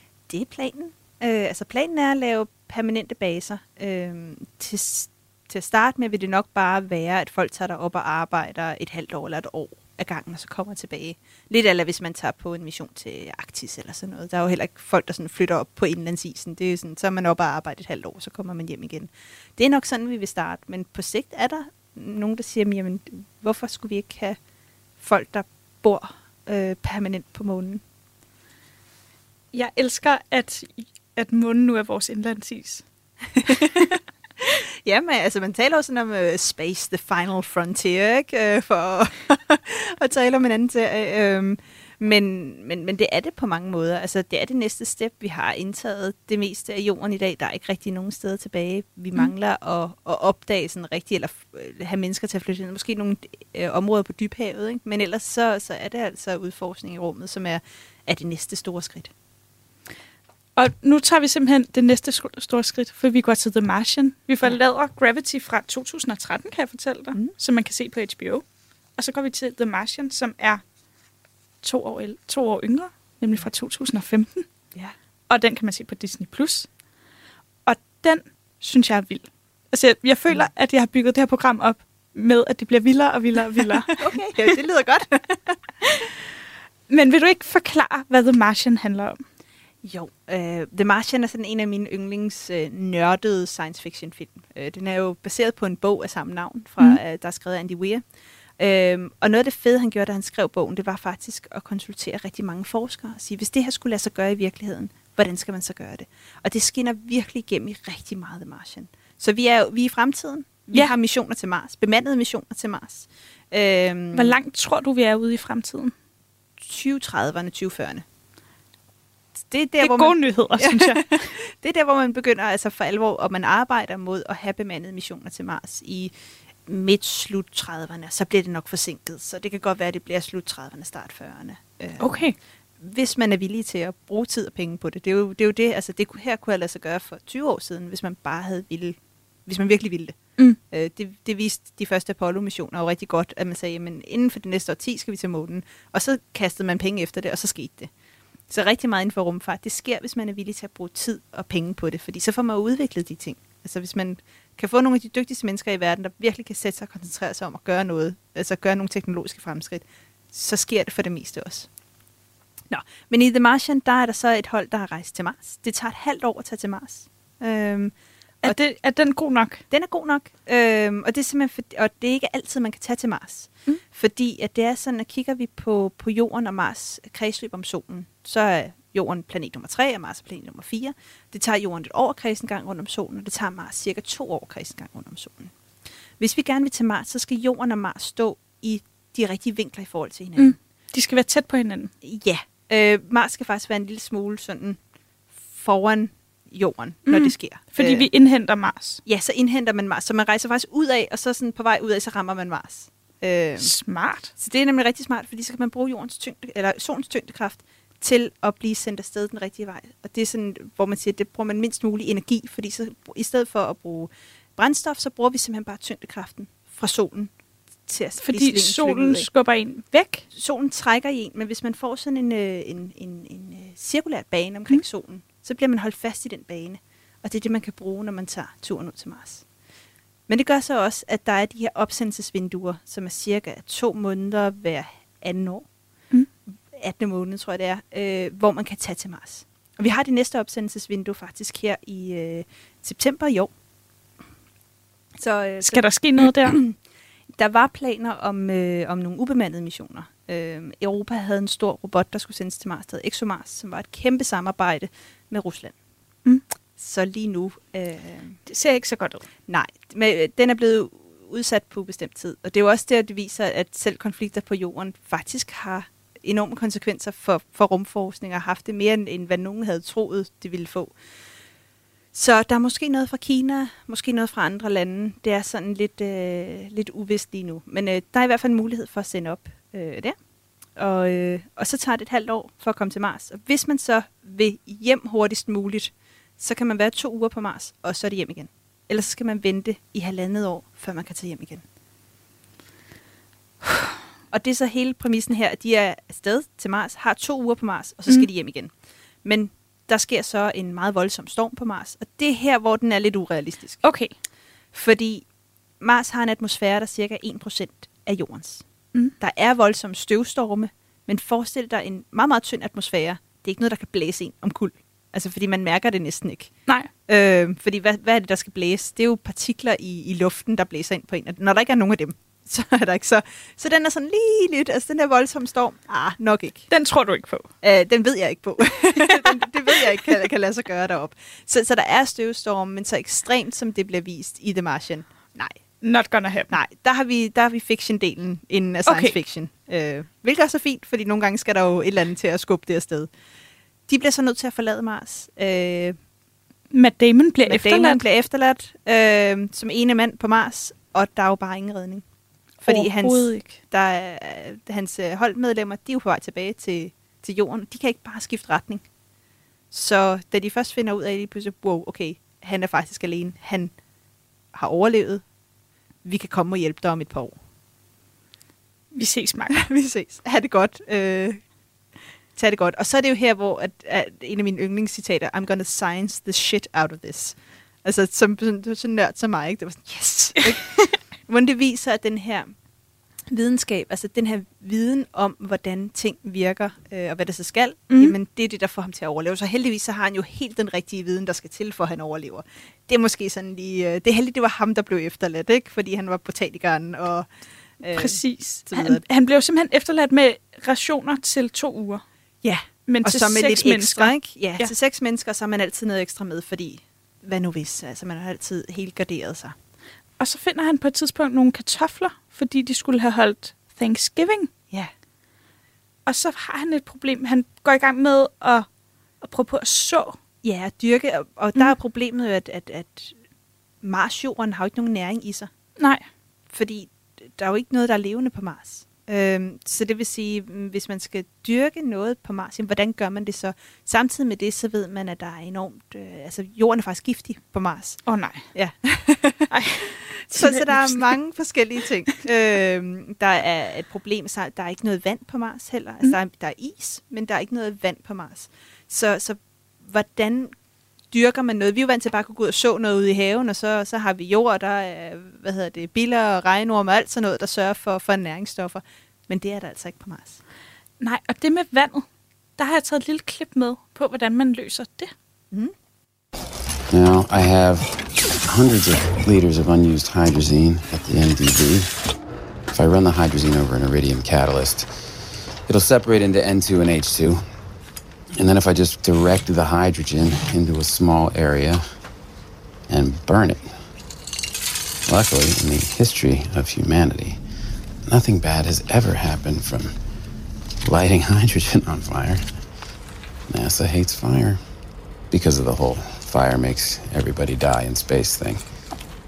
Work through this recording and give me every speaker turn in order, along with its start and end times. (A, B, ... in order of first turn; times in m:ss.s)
0:00.3-0:24.4 A
0:25.0-0:27.8 A
0:29.5-0:32.8 B
0:33.4-0:59.1 A
1:00.6-1:08.4 B
1:09.0-1:10.6 B
1:11.6-1:14.5 B
1:15.3-1:16.7 B
1:17.7-1:24.2 B
1:23.9-1:25.6 A
1:26.9-1:29.2 B
1:29.8-1:38.0 A
1:38.6-1:54.4 A
1:54.1-1:55.9 B
1:56.6-1:58.0 A
1:59.4-2:06.1 A
1:59.8-2:01.3 B
2:06.7-2:12.1 A
2:12.0-2:12.4 B
2:12.8-2:27.9 A
2:28.5-2:41.7 A
2:42.7-2:48.6 A
2:48.4-2:49.6 B
2:49.7-3:05.5 A
3:06.2-3:10.6 A
3:10.4-3:11.9 B
3:12.0-3:14.8 A
3:15.5-3:18.1 A
3:17.1-3:19.0 B
3:19.0-3:23.8 A
3:23.6-3:24.3 B
3:24.4-3:37.3 A
3:37.9-3:39.3 A
3:38.2-3:40.3 B
3:40.3-3:49.4 A
3:50.3-3:55.7 A
3:56.7-4:03.5 A
4:05.2-4:06.8 A
4:05.6-4:06.6 B
4:07.4-4:15.8 A
4:16.8-4:18.4 A
4:18.5-4:19.2 B
4:19.5-4:30.9 A
4:32.1-4:40.2 A
4:40.8-4:51.6 A
4:53.6-4:53.9 B
4:54.3-4:58.7 A
4:59.2-5:03.8 A
5:03.8-5:04.1 B
5:04.7-5:05.2 A
5:05.8-5:08.6 A
5:09.2-5:16.5 A
5:17.1-5:26.7 A
5:26.7-5:27.5 B
5:27.6-5:35.6 A
5:29.0-5:30.0 B
5:35.8-5:36.6 B
5:36.5-5:43.1 A
5:38.9-5:39.2 B
5:43.9-5:46.0 A
5:46.7-5:48.0 B
5:47.4-5:52.0 A
5:52.6-5:58.8 A
5:52.7-5:53.6 B
5:59.7-6:03.7 A
6:04.5-6:05.2 A
6:06.0-6:07.4 A
6:08.9-6:09.6 B
6:09.6-6:11.4 A
6:12.4-6:22.5 A
6:23.3-6:37.3 A
6:27.9-6:28.2 B
6:37.8-6:39.0 A
6:37.9-6:42.0 B
6:42.4-6:49.6 A
6:42.9-6:44.7 B
6:50.2-6:54.5 B
6:56.1-6:58.7 B
6:59.2-7:00.2 B
7:00.4-7:03.2 A
7:03.8-7:05.5 A
7:05.8-7:06.0 B
7:06.5-7:30.5 A
7:18.1-7:18.5 B
7:19.5-7:21.2 B
7:31.1-7:40.4 A
7:41.0-7:42.1 B
7:42.6-7:45.1 B
7:46.9-7:52.0 C
7:52.7-7:55.1 C
7:55.6-7:57.5 C
7:58.4-8:01.8 C
8:02.9-8:03.8 C
8:05.1-8:07.4 C
8:08.0-8:10.0 C
8:10.9-8:12.6 C
8:13.5-8:14.6 C
8:15.3-8:18.7 C